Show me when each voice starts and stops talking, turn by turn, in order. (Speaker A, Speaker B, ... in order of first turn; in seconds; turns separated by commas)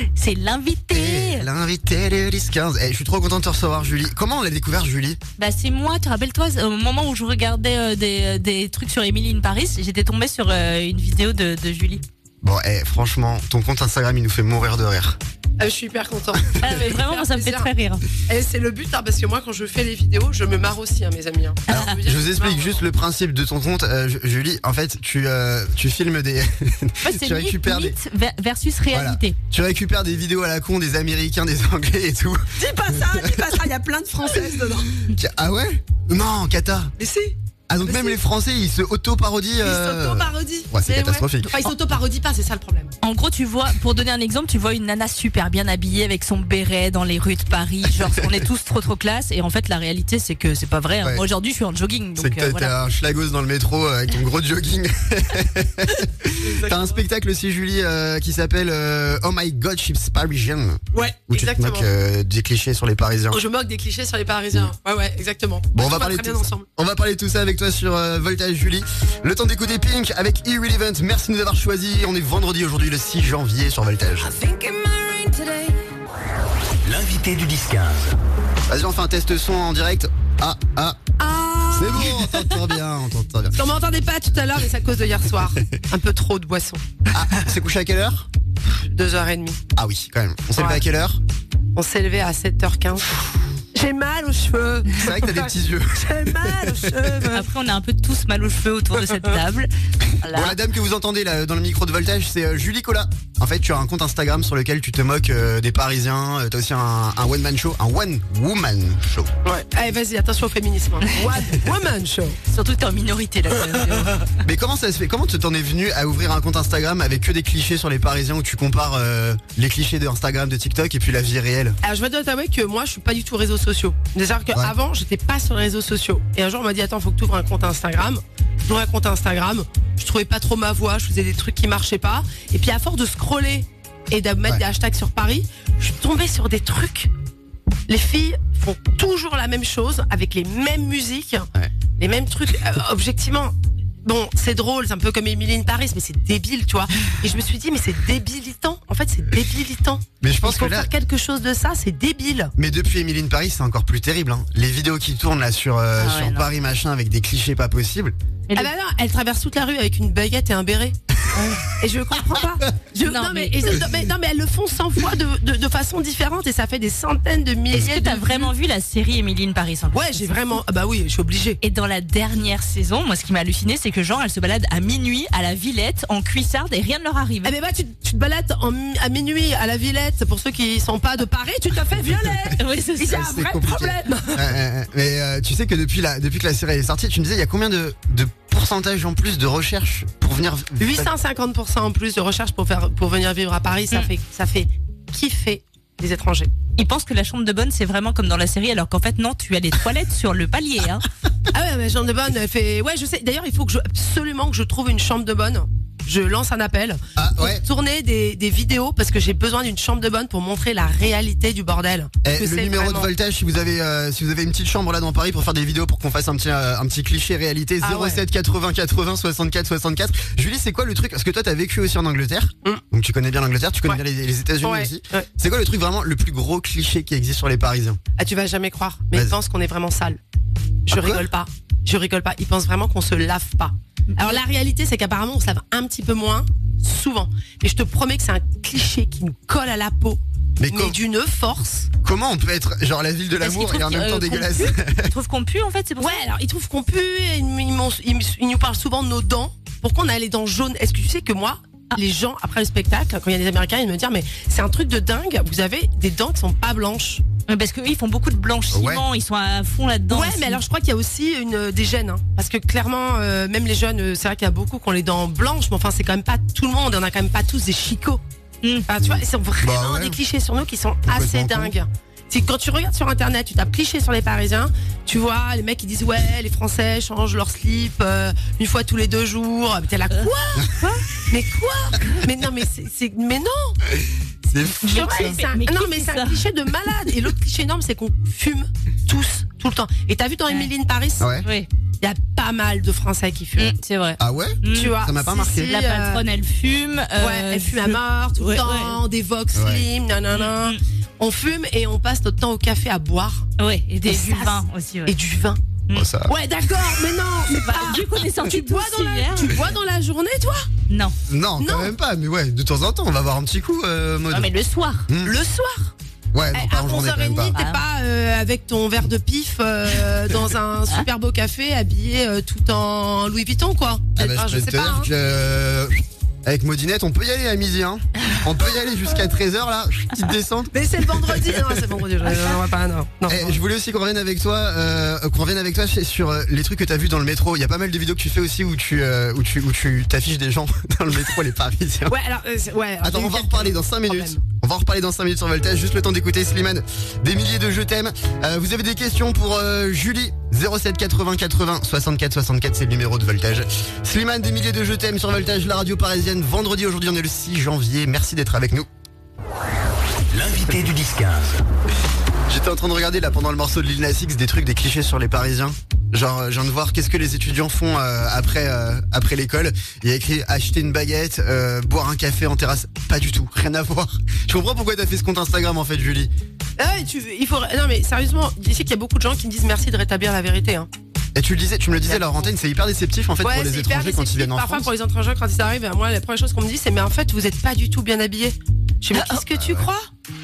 Speaker A: 0.1-1.5, Speaker B: 0.9-5.2, Speaker A: 5.4-12.0, Speaker B: 12.4-15.2, Speaker C: 15.6-17.7, Speaker A: 16.6-18.1, Speaker C: 18.2-22.8, Speaker A: 21.7-21.9, Speaker B: 21.7-27.9, Speaker A: 27.0-29.4, Speaker B: 28.9-33.6, Speaker C: 32.5-34.9, Speaker B: 34.3-36.9, Speaker C: 37.0-38.2, Speaker B: 37.7-41.5, Speaker C: 39.6-42.9, Speaker A: 43.0-52.7, Speaker B: 52.2-63.4, Speaker C: 56.4-57.0, Speaker C: 60.9-61.9, Speaker C: 63.3-66.7, Speaker B: 65.7-74.3, Speaker C: 74.2-75.8, Speaker D: 76.8-78.2, Speaker B: 78.7-81.0, Speaker C: 81.2-82.7, Speaker B: 81.7-83.6, Speaker C: 83.5-86.8, Speaker B: 87.1-88.3, Speaker C: 88.7-89.6, Speaker B: 89.7-91.2, Speaker C: 90.5-90.8, Speaker C: 91.7-97.5, Speaker B: 94.9-97.2, Speaker A: 97.3-99.7, Speaker A: 100.2-100.6, Speaker B: 100.2-109.3, Speaker C: 109.4-112.4, Speaker A: 112.5-114.3, Speaker B: 114.4-121.8, Speaker C: 121.8-137.1, Speaker C: 137.9-152.5, Speaker B: 150.2-150.9, Speaker B: 152.6-158.1, Speaker A: 156.0-156.5, Speaker C: 158.6-160.9, Speaker A: 161.3-161.6, Speaker C: 161.7-168.5, Speaker A: 163.0-163.6, Speaker A: 167.7-170.5, Speaker C: 169.9-171.6, Speaker A: 171.6-177.5, Speaker C: 177.4-184.4, Speaker B: 182.1-182.5, Speaker A: 182.6-183.2, Speaker B: 183.1-191.1, Speaker C: 190.8-196.5, Speaker A: 196.8-201.1, Speaker C: 201.5-213.1, Speaker B: 207.2-207.6, Speaker B: 212.2-228.0, Speaker C: 217.8-218.2, Speaker C: 224.6-225.3, Speaker C: 228.2-230.2, Speaker C: 230.8-241.9, Speaker B: 230.9-231.2, Speaker B: 240.6-241.0, Speaker B: 242.0-245.1, Speaker A: 243.4-246.2, Speaker C: 246.0-257.2, Speaker A: 257.5-260.6, Speaker B: 258.7-259.0, Speaker C: 260.1-268.2, Speaker C: 268.9-283.8, Speaker B: 269.0-270.2, Speaker B: 271.1-271.7, Speaker B: 283.9-285.4, Speaker C: 284.8-291.3, Speaker A: 284.8-286.4, Speaker B: 291.2-291.5, Speaker C: 292.0-293.7, Speaker A: 293.6-299.0, Speaker B: 294.2-295.7, Speaker C: 294.7-296.2, Speaker C: 297.2-303.4, Speaker B: 299.5-299.8, Speaker A: 300.3-300.8, Speaker A: 303.6-305.1, Speaker C: 304.1-305.6, Speaker B: 305.9-306.3, Speaker C: 306.2-310.7, Speaker A: 307.6-309.6, Speaker A: 310.9-311.1, Speaker B: 311.3-314.5, Speaker C: 311.6-311.9, Speaker A: 314.3-315.1, Speaker B: 315.1-315.4, Speaker C: 315.2-315.9, Speaker B: 316.3-317.6, Speaker C: 316.5-325.1, Speaker A: 317.5-317.8, Speaker B: 324.1-331.9, Speaker C: 330.7-333.6, Speaker B: 333.3-342.1, Speaker C: 342.1-344.4, Speaker B: 343.0-358.9, Speaker D: 360.3-361.6, Speaker B: 362.5-376.3, Speaker C: 376.8-380.9, Speaker B: 381.3-384.9, Speaker C: 382.1-382.4, Speaker C: 383.4-390.1, Speaker A: 389.1-389.4, Speaker B: 389.5-389.9